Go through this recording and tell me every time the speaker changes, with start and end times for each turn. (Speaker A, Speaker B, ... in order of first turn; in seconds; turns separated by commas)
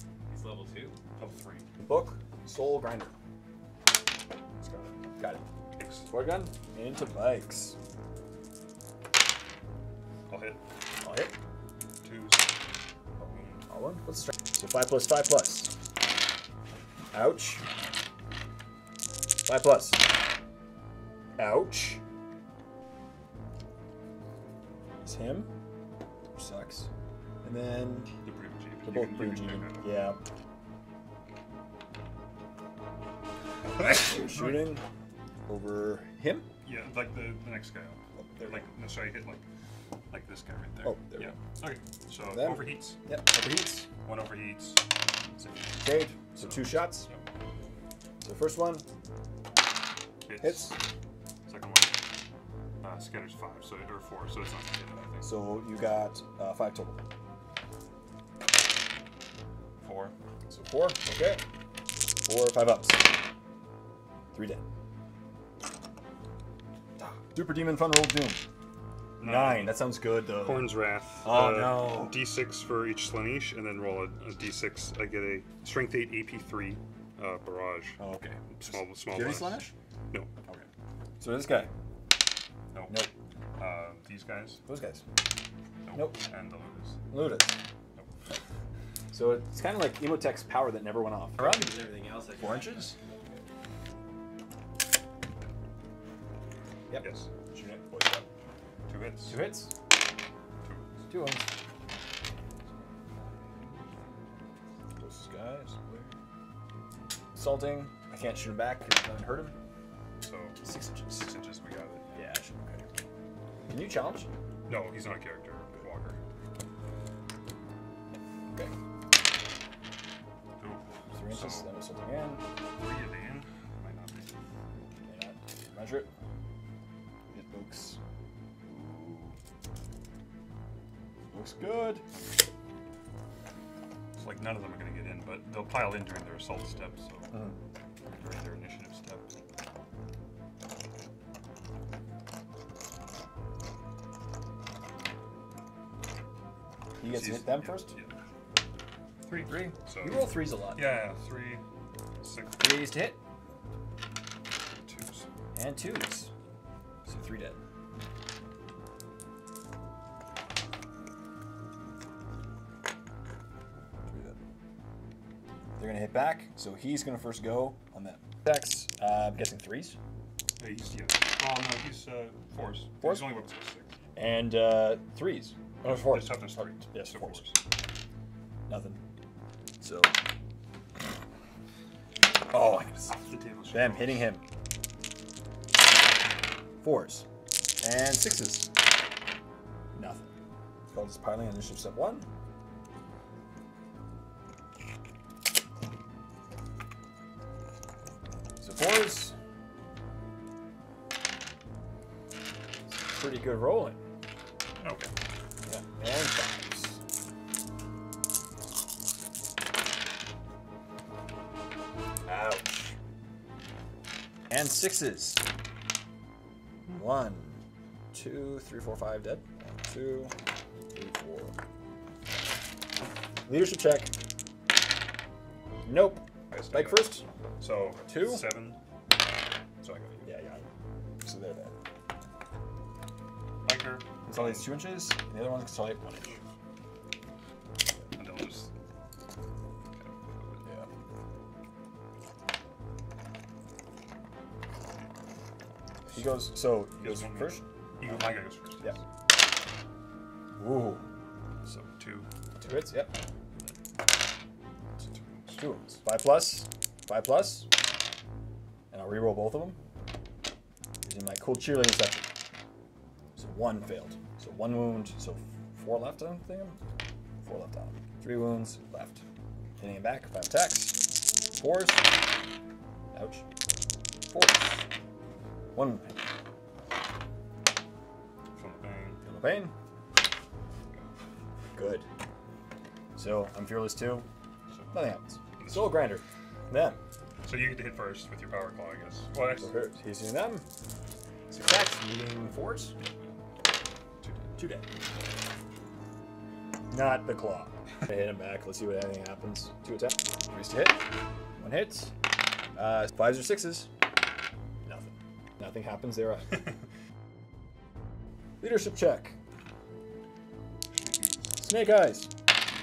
Speaker A: 0.3-1.2, Speaker B: 1.1-1.7, Speaker C: 1.8-3.1, Speaker B: 4.6-4.9, Speaker C: 5.2-5.4, Speaker B: 5.8-6.1, Speaker C: 6.1-7.8, Speaker B: 10.3-10.6, Speaker C: 11.0-11.3, Speaker B: 12.0-12.5, Speaker B: 13.2-13.7, Speaker C: 13.7-15.7, Speaker C: 17.1-17.6, Speaker C: 19.4-20.0, Speaker C: 21.4-22.0, Speaker C: 25.0-25.5, Speaker C: 26.4-26.9, Speaker C: 27.4-28.1, Speaker B: 28.2-30.1, Speaker C: 28.8-30.2, Speaker C: 33.8-34.9, Speaker B: 33.8-34.8, Speaker C: 35.5-36.5, Speaker B: 36.6-39.4, Speaker C: 38.2-38.7, Speaker B: 40.1-43.0, Speaker C: 40.8-41.4, Speaker C: 42.3-43.9, Speaker B: 44.0-44.8, Speaker B: 45.4-47.2, Speaker C: 45.8-47.1, Speaker C: 48.2-48.9, Speaker B: 50.3-50.8, Speaker C: 50.4-50.8, Speaker B: 51.5-52.0, Speaker B: 52.8-55.3, Speaker C: 55.2-57.0, Speaker B: 59.8-60.1, Speaker C: 60.5-61.4, Speaker C: 62.2-63.1, Speaker C: 64.3-64.6, Speaker C: 67.0-68.4, Speaker B: 69.2-78.0, Speaker C: 69.2-72.2, Speaker C: 78.0-79.7, Speaker B: 78.5-80.3, Speaker C: 81.2-81.7, Speaker B: 82.7-83.1, Speaker C: 82.9-83.1, Speaker B: 83.6-84.6, Speaker C: 84.7-85.0, Speaker B: 85.9-87.1, Speaker C: 85.9-86.2, Speaker C: 87.1-87.6, Speaker C: 89.1-91.8, Speaker A: 91.4-93.4, Speaker C: 92.4-93.0, Speaker C: 96.9-98.3, Speaker B: 97.0-97.3, Speaker B: 98.9-99.4, Speaker C: 99.3-99.7, Speaker B: 100.6-101.0, Speaker C: 101.1-101.5, Speaker A: 103.0-104.5, Speaker C: 105.0-106.1, Speaker C: 107.3-109.5, Speaker B: 110.2-110.6, Speaker C: 110.6-111.3, Speaker B: 111.1-112.2, Speaker C: 112.1-112.9, Speaker C: 113.7-114.3, Speaker B: 114.7-116.2, Speaker B: 120.6-121.7, Speaker C: 121.1-122.4, Speaker B: 122.8-124.3, Speaker C: 125.0-126.1, Speaker C: 127.3-128.0, Speaker C: 128.7-129.4, Speaker C: 131.3-132.0, Speaker B: 134.2-137.4, Speaker C: 137.3-137.6, Speaker B: 138.1-139.3, Speaker C: 147.0-147.9, Speaker B: 147.0-148.1, Speaker B: 149.3-151.6, Speaker C: 149.4-151.0, Speaker B: 152.2-152.9, Speaker C: 152.6-153.2, Speaker B: 154.9-155.3, Speaker C: 155.6-156.3, Speaker C: 157.1-157.6, Speaker C: 164.1-164.4, Speaker C: 165.8-170.0, Speaker B: 170.6-173.9, Speaker C: 173.0-173.4, Speaker C: 174.2-177.4, Speaker B: 175.8-177.6, Speaker C: 178.7-179.0, Speaker C: 179.8-180.2, Speaker C: 182.5-184.4, Speaker B: 183.2-184.3, Speaker C: 186.8-187.3, Speaker C: 187.8-188.7, Speaker C: 190.0-190.3, Speaker C: 190.9-192.3, Speaker C: 198.6-199.3, Speaker C: 203.1-204.0, Speaker B: 204.8-205.1, Speaker C: 205.6-207.0, Speaker C: 212.2-213.0, Speaker C: 214.5-215.4, Speaker C: 216.9-217.6, Speaker C: 218.1-220.3, Speaker C: 220.9-221.6, Speaker C: 223.5-224.1, Speaker C: 225.8-227.2, Speaker B: 226.5-228.8, Speaker C: 228.1-228.5, Speaker B: 229.8-230.3, Speaker C: 230.2-230.6, Speaker C: 231.2-231.8, Speaker B: 233.7-234.7, Speaker C: 234.2-236.4, Speaker B: 238.2-238.7, Speaker B: 239.9-240.7, Speaker C: 246.1-249.0, Speaker B: 246.9-249.0, Speaker C: 250.6-251.0, Speaker B: 251.6-252.3, Speaker C: 252.6-253.2, Speaker B: 255.0-255.6, Speaker C: 255.6-257.7, Speaker C: 258.9-259.8, Speaker C: 261.1-262.3, Speaker C: 263.4-266.8, Speaker C: 267.4-269.2, Speaker C: 269.8-272.1, Speaker C: 273.1-273.4, Speaker C: 274.3-274.9, Speaker C: 275.8-276.1, Speaker B: 278.6-279.2, Speaker C: 279.2-279.7, Speaker C: 281.8-282.1, Speaker C: 283.2-284.2, Speaker B: 284.7-285.1, Speaker C: 284.9-287.0, Speaker B: 285.6-286.1, Speaker B: 287.4-289.7, Speaker C: 289.6-290.7, Speaker C: 291.5-293.0, Speaker B: 293.0-293.3, Speaker B: 294.2-294.5, Speaker C: 294.6-294.9, Speaker C: 296.9-301.0, Speaker C: 301.6-302.1, Speaker C: 302.8-303.9, Speaker C: 304.9-306.7, Speaker C: 308.6-309.4, Speaker B: 310.9-311.5, Speaker C: 311.6-312.3